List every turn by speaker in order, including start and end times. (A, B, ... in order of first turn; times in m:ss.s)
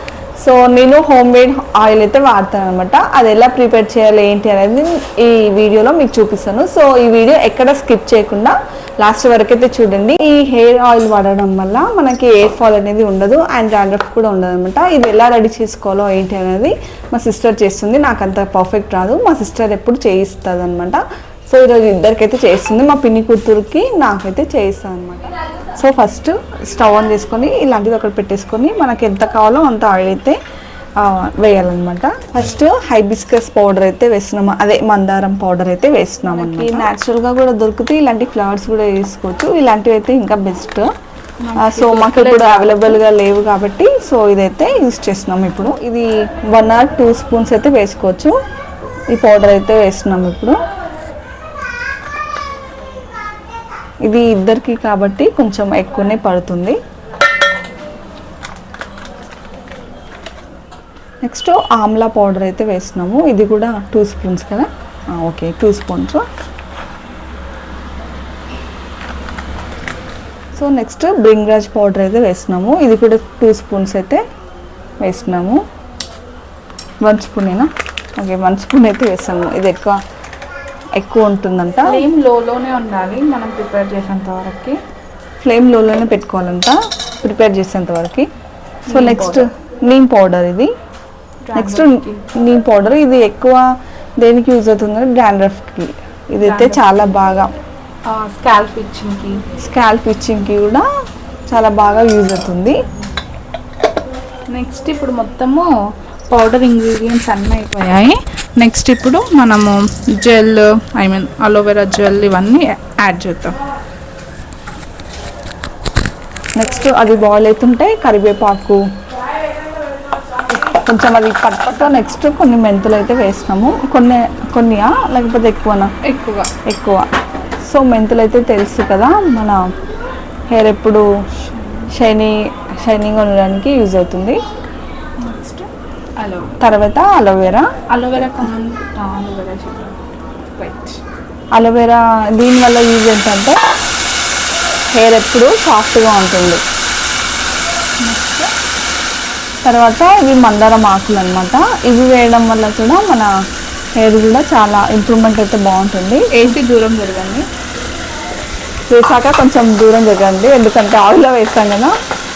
0:00.4-0:25.3 A
0:25.8-0:30.4 A
0:31.0-0:40.9 A
0:36.3-0:36.9 B
0:41.4-0:43.0 B
0:41.6-0:48.3 A
0:49.1-0:50.6 A
0:54.0-0:56.8 A
1:01.2-1:06.2 A
1:10.6-1:14.2 A
1:15.0-1:15.6 A
1:17.0-1:20.0 A
1:21.0-1:22.0 A
1:21.9-1:24.8 B
1:25.4-1:28.2 A
1:28.9-1:29.4 B
1:28.9-1:30.7 A
1:31.4-1:32.2 B
1:31.6-1:33.6 A
1:34.2-1:37.5 A
1:36.4-1:36.8 B
1:38.1-1:39.4 B
1:39.6-1:40.8 A
1:41.5-1:42.7 A
1:44.5-1:45.7 B
1:46.3-1:53.6 B
1:56.6-1:58.8 A
2:00.8-2:05.9 A
2:06.0-2:06.5 B
2:06.6-2:07.0 A
2:07.6-2:09.6 A
2:10.5-2:11.0 A
2:11.4-2:11.9 B
2:11.9-2:14.4 A
2:15.2-2:16.5 B
2:16.6-2:17.6 A
2:17.9-2:20.0 B
2:20.6-2:21.0 B
2:21.5-2:23.6 A
2:24.9-2:26.6 A
2:28.0-2:28.5 B
2:29.6-2:33.3 A
2:34.0-2:36.4 A
2:36.3-2:37.4 B
2:38.9-2:41.9 A